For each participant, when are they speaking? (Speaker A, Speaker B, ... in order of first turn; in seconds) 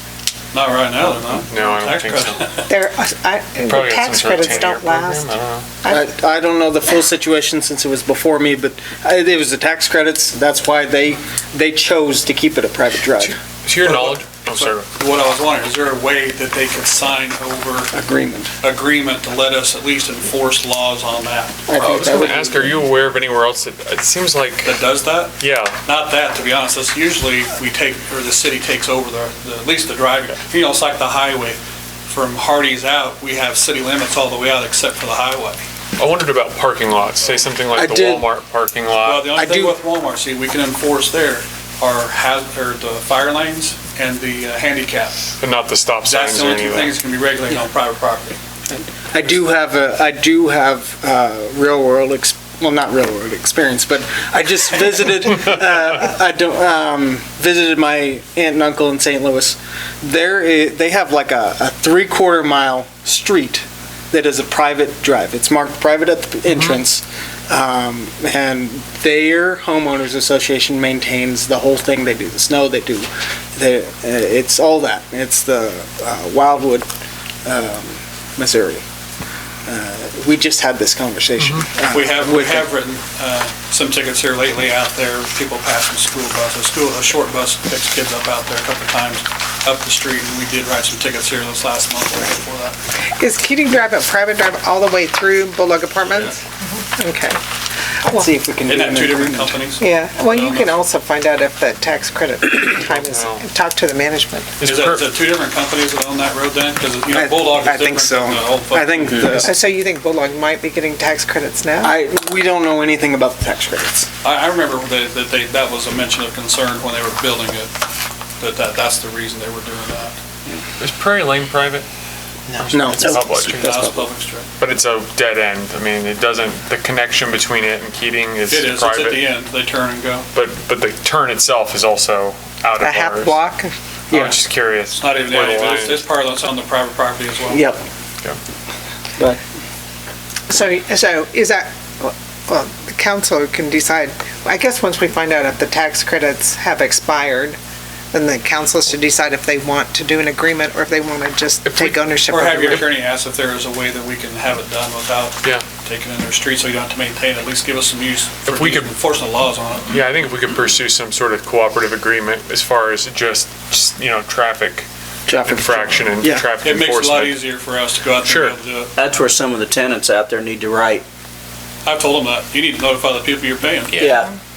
Speaker A: 0.5-2.7, 13.8-17.9, 18.6-21.6, 24.6-31.6, 32.1-35.6, 39.0-45.3, 46.0-48.4, 81.9-92.8, 98.7-100.8, 104.6-109.4, 114.2-117.7, 118.4-120.2, 123.4-124.5, 128.5-130.3, 135.0-137.7, 152.3-159.9, 166.6-168.9, 171.8-174.1
Speaker B: 1.5-2.5, 3.6-5.7, 13.6-14.9, 21.8-24.8, 25.4-25.8, 36.0-39.3, 45.4-47.0, 66.5-66.8, 81.4-81.7, 102.8-103.5, 104.6-105.1, 120.8-121.9, 122.6-123.8, 124.6-129.3, 130.3-133.4, 134.1-136.1, 151.7-152.0, 158.5-158.9, 159.9-164.9, 165.4-167.4, 168.2-168.6
Speaker C: 2.7-5.3, 93.2-96.4, 97.0-97.4, 99.8-104.5, 109.4-112.0, 132.8-133.7, 140.5-147.6, 148.1-152.9
Speaker D: 5.9-13.4, 17.9-18.5, 21.7-22.8, 37.8-38.3, 39.4-39.8, 48.7-76.9, 77.5-78.8, 79.7-82.7, 98.2-99.6, 107.1-109.5, 111.8-114.1, 122.5-124.0, 134.1-134.4, 137.5-137.8, 165.3-166.5
Speaker E: 169.0-171.1, 174.0-174.3